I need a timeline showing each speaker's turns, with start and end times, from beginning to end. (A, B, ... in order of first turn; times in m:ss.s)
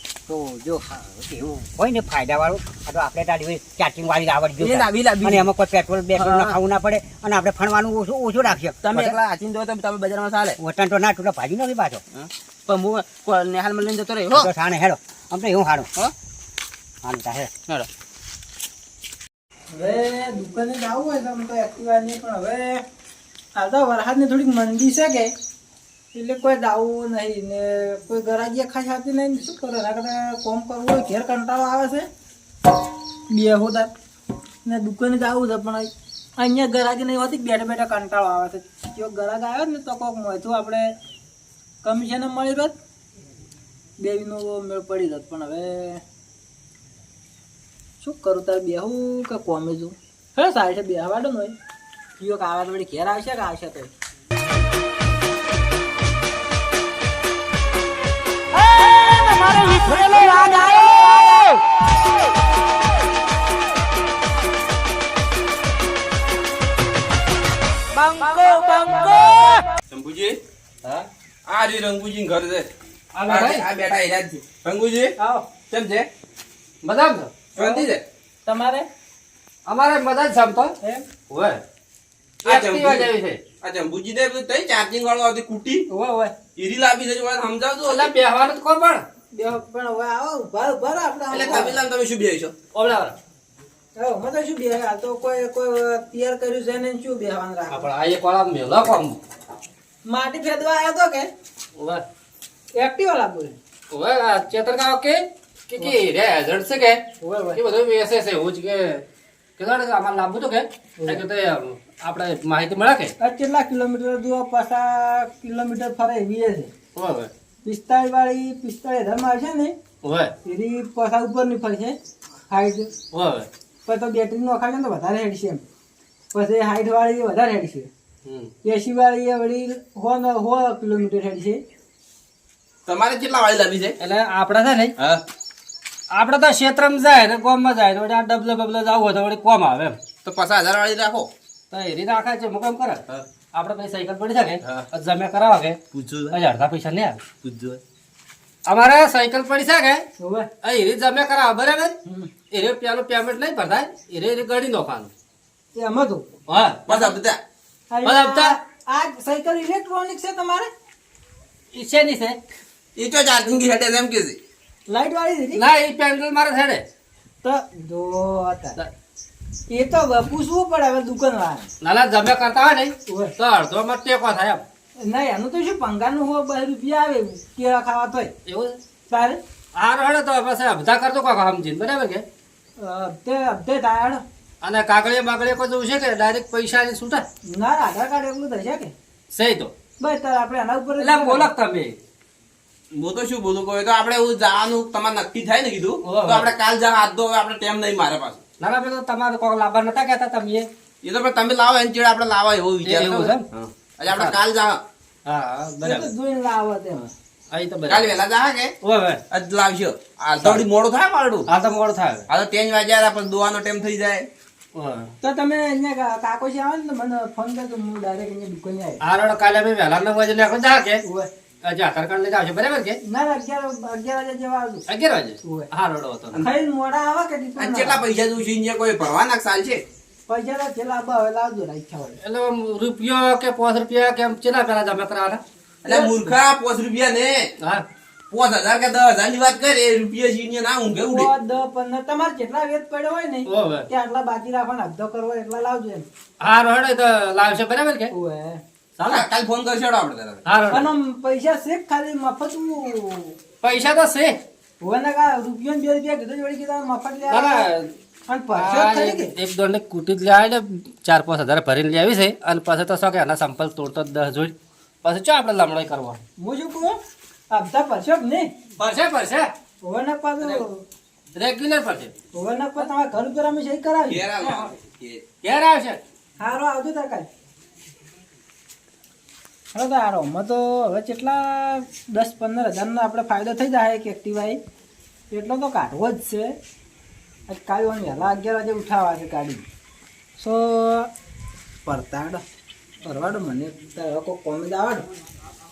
0:00.3-0:09.2 A
0:04.6-0:05.5 B
0:06.1-0:06.6 B
0:08.8-0:10.6 B
0:10.6-0:12.0 A
0:12.1-0:14.5 B
0:14.3-0:15.9 A
0:17.0-0:17.5 A
0:19.7-0:22.8 C
0:23.6-0:25.3 C
0:26.1-0:32.1 C
0:33.3-0:33.9 C
0:34.6-0:40.9 C
0:41.8-0:42.7 C
0:44.0-0:46.0 C
0:48.0-0:51.5 C
0:52.2-0:53.9 C
0:59.1-1:01.3 C
0:59.5-1:00.8 B
1:08.2-1:09.6 B
1:09.9-1:10.4 D
1:11.4-1:12.7 D
1:13.1-1:13.6 E
1:13.3-1:16.1 D
1:15.2-1:15.5 C
1:16.8-1:17.3 E
1:17.6-1:18.0 D
1:17.6-1:17.9 C
1:18.4-1:18.9 C
1:19.7-1:20.7 E
1:20.8-1:21.0 C
1:21.3-1:21.6 E
1:22.4-1:23.1 D
1:22.4-1:23.4 E
1:23.6-1:25.8 D
1:25.9-1:26.3 C
1:26.5-1:28.1 D
1:27.8-1:29.0 E
1:29.3-1:31.8 C
1:31.3-1:32.5 D
1:32.7-1:33.2 E
1:34.0-1:37.9 C
1:37.7-1:39.2 E
1:40.0-1:41.3 C
1:41.8-1:42.0 E
1:42.8-1:43.5 C
1:43.9-1:47.0 E
1:47.2-1:47.6 C
1:47.5-1:49.0 E
1:49.6-1:53.1 E
1:53.2-1:56.7 C
1:57.0-1:57.3 E
1:57.6-1:59.7 C
2:00.0-2:00.3 E
2:00.4-2:02.0 C
2:02.5-2:02.9 C
2:03.1-2:03.5 E
2:03.9-2:05.6 C
2:06.3-2:07.9 C
2:08.2-2:08.5 E
2:08.6-2:11.6 C
2:12.9-2:13.9 D
2:14.0-2:14.9 E
2:15.0-2:15.2 D
2:16.1-2:20.0 E
2:20.2-2:21.3 D
2:21.7-2:25.8 E
2:25.9-2:26.4 D
2:26.3-2:27.2 E
2:27.4-2:27.8 D
2:28.6-2:30.0 E
2:30.2-2:30.5 C
2:30.6-2:32.0 E
2:32.5-2:35.1 E
2:35.7-2:36.2 C
2:36.5-2:36.9 E
2:36.9-2:37.4 D
2:37.9-2:40.7 C
2:38.0-2:38.5 E
2:41.7-2:42.4 E
2:43.0-2:44.4 D
2:44.9-2:45.6 C
2:45.5-2:46.8 E
2:47.4-2:48.8 C
2:49.7-2:51.7 C
2:51.8-2:54.6 E
2:53.1-2:53.3 C
2:55.0-2:58.3 C
2:58.4-2:58.8 E
2:59.1-2:59.4 C
2:59.8-3:02.2 E
3:02.8-3:04.2 C
3:04.6-3:07.2 E
3:07.4-3:08.9 C
3:09.3-3:09.7 E
3:10.0-3:11.5 C
3:11.0-3:12.0 E
3:12.9-3:18.4 D
3:16.0-3:16.5 E
3:18.6-3:20.7 E
3:21.0-3:24.8 D
3:22.8-3:23.4 E
3:24.1-3:24.4 E
3:25.2-3:26.1 E
3:25.8-3:27.1 C
3:27.5-3:28.1 E
3:27.9-3:28.7 D
3:28.8-3:29.2 E
3:29.3-3:31.4 D
3:31.5-3:32.2 E
3:32.3-3:34.3 D
3:34.7-3:35.1 E
3:35.2-3:39.0 C
3:39.0-3:41.0 E
3:41.0-3:41.3 C
3:41.6-3:43.0 E
3:43.0-3:44.8 C
3:44.9-3:46.4 E
3:45.4-3:45.7 C
3:46.4-3:48.0 C
3:47.6-3:49.8 D
3:50.3-3:52.2 C
3:52.2-3:55.4 E
3:55.8-3:57.5 D
3:55.8-3:56.3 C
3:58.3-4:01.3 D
4:01.0-4:06.0 C
4:03.5-4:03.9 E
4:06.4-4:08.1 E
4:08.1-4:08.6 C
4:09.0-4:09.2 E
4:09.0-4:10.5 D
4:10.4-4:10.8 E
4:10.7-4:13.4 C
4:13.6-4:14.4 E
4:14.8-4:17.7 C
4:17.3-4:17.9 E
4:18.3-4:19.3 C
4:18.6-4:26.2 E
4:26.4-4:27.0 C
4:27.5-4:28.5 C
4:28.8-4:29.5 E
4:29.8-4:30.8 C
4:31.3-4:32.1 E
4:32.3-4:34.7 C
4:34.1-4:35.2 D
4:35.4-4:36.0 E
4:36.4-4:37.3 C
4:39.7-4:44.6 C
4:45.3-4:46.5 C
4:47.5-4:49.6 C
4:50.4-4:51.1 C
4:51.8-4:52.4 C
4:53.0-4:55.0 C